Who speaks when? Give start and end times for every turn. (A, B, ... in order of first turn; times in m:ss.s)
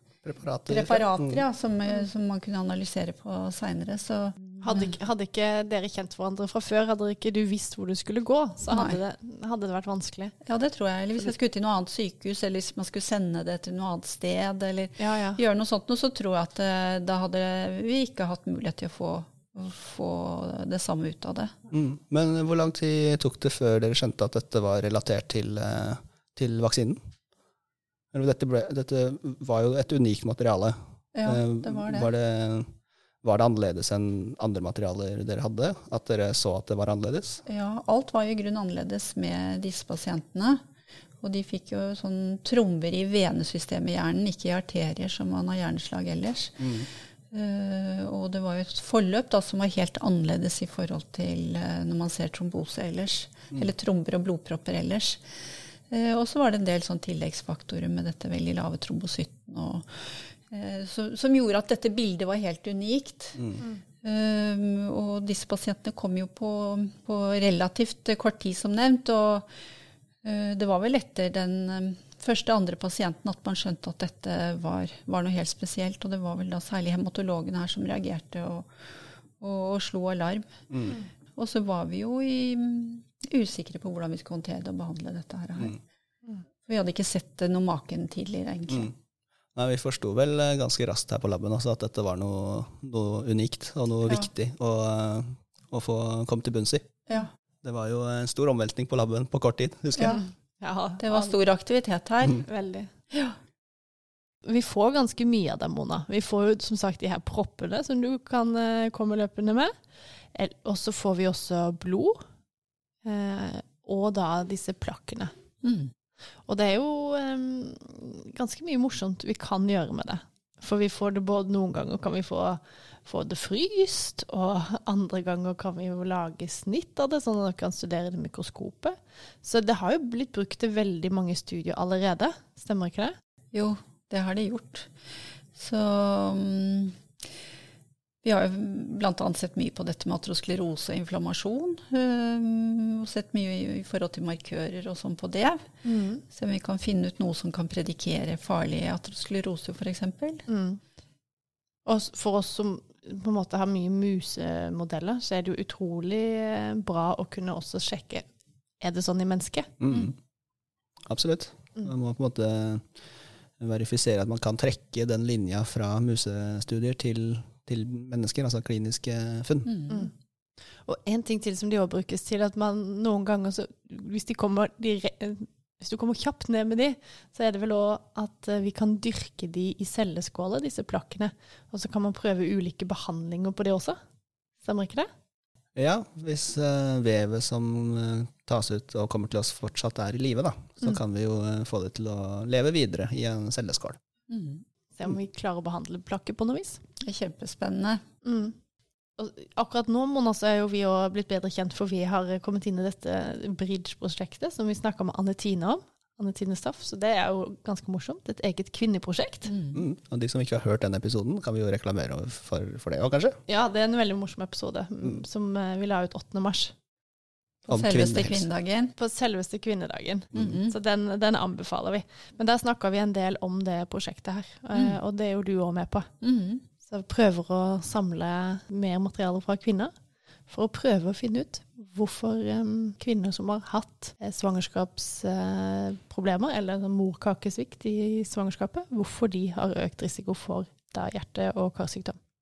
0:00.2-0:01.4 A
0:00.7-0:04.9 B
0:04.6-0:10.3 C
0:08.7-0:09.0 B
0:10.4-0:21.5 B
0:15.0-0:15.4 C
0:21.7-0:27.0 A
0:28.1-0:32.7 A
0:31.1-0:32.1 B
0:33.2-0:37.4 A
0:37.4-0:40.6 B
0:41.2-0:55.2 B
0:46.6-0:46.8 A
0:55.9-1:09.5 B
1:10.2-1:18.7 B
1:19.4-1:25.8 B
1:20.7-1:21.0 A
1:26.6-1:28.9 B
1:29.5-1:36.9 A
1:37.6-1:40.2 A
1:40.1-1:41.3 C
1:41.0-1:42.4 B
1:42.5-1:42.9 C
1:44.4-1:49.7 C
1:50.3-1:52.2 C
1:53.0-1:55.3 C
1:55.6-1:55.9 B
1:56.4-2:13.1 C
2:13.5-2:14.9 B
2:15.5-2:17.0 B
2:18.2-2:25.7 B
2:25.8-2:26.2 C
2:26.3-2:30.5 B
2:30.5-2:30.8 C
2:31.8-2:38.2 C
2:38.8-2:39.7 C
2:39.8-2:40.1 A
2:41.1-2:42.9 A
2:43.6-2:49.7 A
2:49.6-2:50.1 B
2:50.8-3:04.0 C
3:04.6-3:05.1 C
3:05.7-3:14.0 A
3:14.3-3:14.6 B
3:14.9-3:16.8 C
3:17.0-3:18.0 B
3:18.2-3:18.6 C
3:19.2-3:29.5 C
3:29.5-3:29.8 B
3:29.7-3:33.4 A
3:33.5-3:36.7 C
3:37.7-3:38.9 B
3:37.7-3:38.5 A
3:39.0-3:46.1 C
3:40.3-3:40.7 B
3:46.2-3:46.6 B
3:46.8-3:49.9 C
3:50.5-4:02.2 C